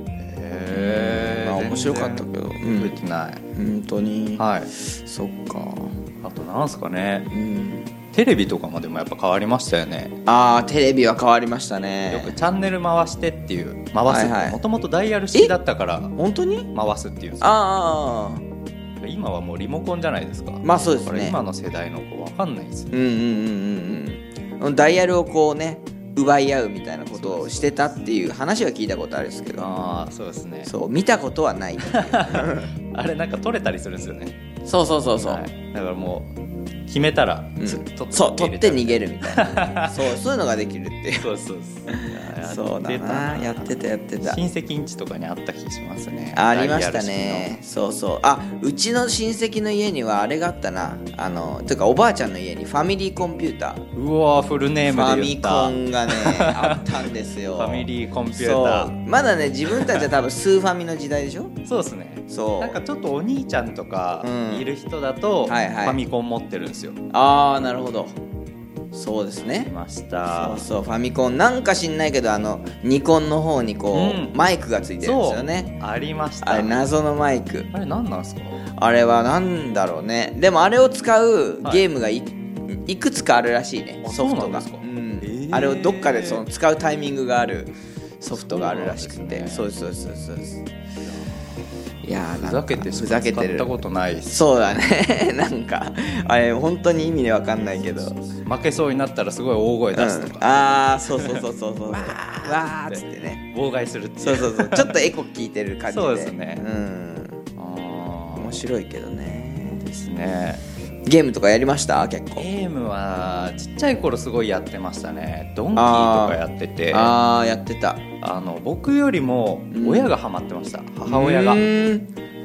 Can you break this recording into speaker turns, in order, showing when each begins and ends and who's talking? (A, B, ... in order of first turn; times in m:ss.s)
0:00.2-0:03.4 A
0:00.7-0:03.0 B
0:03.5-0:05.9 B
0:04.4-0:04.7 A
0:06.2-0:07.3 A
0:07.3-0:07.9 B
0:08.1-0:10.2 A
0:10.2-0:12.4 B
0:12.1-0:16.1 A
0:14.1-0:14.6 B
0:16.2-0:16.7 B
0:16.7-0:17.6 A
0:17.4-0:18.4 B
0:19.0-0:22.9 A
0:20.6-0:21.4 B
0:22.9-0:29.7 B
0:27.1-0:28.0 A
0:29.6-0:30.7 A
0:30.6-0:32.7 B
0:31.9-0:34.4 A
0:34.6-0:35.4 B
0:35.2-0:36.3 A
0:36.9-0:40.0 A
0:37.6-0:41.3 B
0:41.2-0:47.5 A
0:41.9-0:44.4 B
0:46.3-0:53.8 B
0:53.9-0:59.0 A
0:54.8-1:01.5 B
0:59.7-1:00.1 A
1:01.6-1:07.0 A
1:02.3-1:02.8 B
1:04.2-1:04.7 B
1:05.4-1:06.0 B
1:07.1-1:08.2 B
1:08.9-1:09.7 B
1:09.4-1:10.6 A
1:10.3-1:15.8 B
1:13.9-1:14.4 A
1:15.0-1:16.9 A
1:16.4-1:17.7 B
1:17.7-1:18.6 A
1:18.8-1:30.6 B
1:24.0-1:26.4 A
1:28.3-1:29.7 A
1:31.1-1:31.5 A
1:32.0-1:33.7 B
1:32.3-1:34.4 A
1:34.2-1:38.1 B
1:37.6-1:40.6 A
1:39.9-1:43.4 B
1:41.2-1:45.0 A
1:44.2-1:47.4 B
1:45.9-1:46.6 A
1:47.6-1:48.6 A
1:48.4-1:49.8 B
1:49.8-1:50.6 A
1:51.1-1:52.5 B
1:52.4-1:57.1 A
1:55.7-1:56.4 B
1:56.9-1:58.0 B
1:58.2-2:01.7 A
1:59.7-2:00.1 B
2:01.1-2:02.1 B